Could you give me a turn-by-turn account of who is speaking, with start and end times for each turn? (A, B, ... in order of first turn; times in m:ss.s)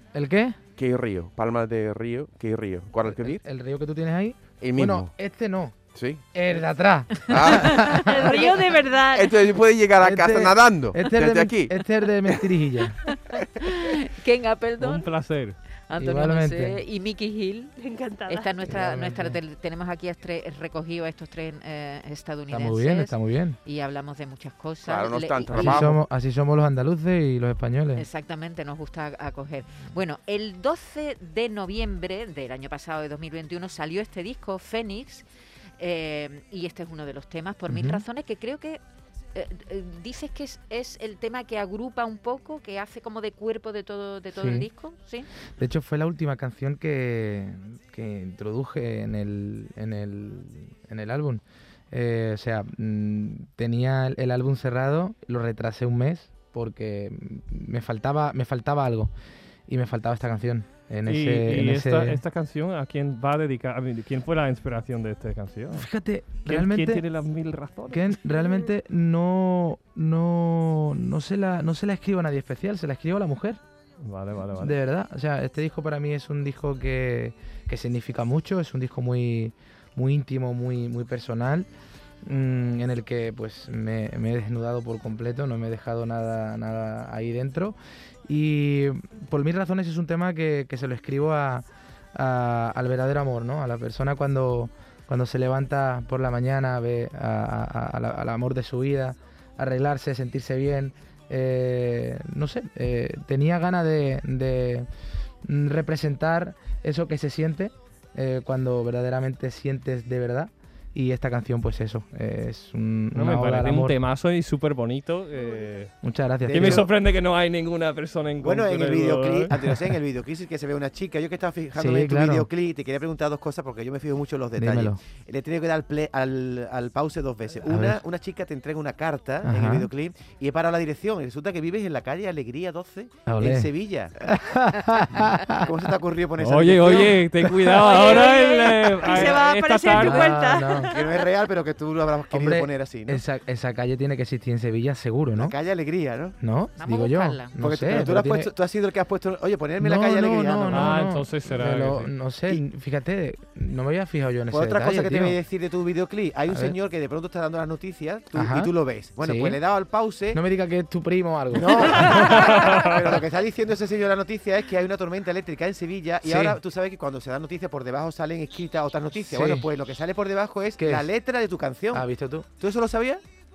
0:00.1-0:00.6 A
0:00.8-0:03.4 B
0:03.1-0:05.8 A
0:04.6-0:05.1 B
0:06.0-0:06.2 B
0:06.3-0:08.3 A
0:07.3-0:08.2 B
0:07.5-0:08.8 C
0:08.0-0:09.4 D
0:09.1-0:12.4 B
0:10.0-0:13.0 A
0:13.4-0:15.1 C
0:14.8-0:15.6 E
0:15.9-0:17.8 C
0:16.0-0:16.8 A
0:17.8-0:18.6 D
0:18.3-0:26.0 C
0:18.7-0:19.4 A
0:22.5-0:23.6 A
0:24.8-0:26.0 B
0:25.5-0:28.1 A
0:28.0-0:35.3 C
0:35.8-0:38.8 C
0:37.7-0:38.0 A
0:39.3-0:45.3 C
0:44.3-0:44.7 A
0:45.6-0:59.1 A
0:59.7-1:02.2 A
1:01.1-1:08.2 E
1:05.7-1:07.1 A
1:07.9-1:13.6 A
1:14.0-1:14.8 E
1:14.6-1:21.7 A
1:22.2-1:44.9 A
1:45.4-1:54.0 A
1:53.1-1:55.9 E
1:56.0-1:56.9 A
1:56.4-1:59.9 E
1:58.4-2:14.1 F
2:01.8-2:02.5 A
2:04.6-2:05.0 A
2:07.7-2:08.0 A
2:09.4-2:09.9 A
2:13.3-2:13.7 A
2:14.2-2:15.6 A
2:15.6-2:17.3 F
2:16.4-2:20.4 E
2:17.4-2:17.9 A
2:17.8-2:21.2 D
2:17.8-2:18.3 F
2:19.9-2:21.0 A
2:20.9-2:23.2 F
2:22.3-2:25.6 A
2:25.3-2:26.4 F
2:26.4-2:28.5 A
2:26.8-2:27.5 C
2:27.6-2:31.0 F
2:29.8-2:35.4 A
2:30.7-2:32.1 E
2:34.5-2:40.4 F
2:36.5-2:36.8 A
2:38.3-2:39.6 A
2:40.3-2:42.5 A
2:41.5-2:52.0 F
2:46.2-2:46.6 A
2:49.3-2:49.7 A
2:50.8-2:51.1 A
2:51.9-2:52.5 A
2:52.6-2:53.2 F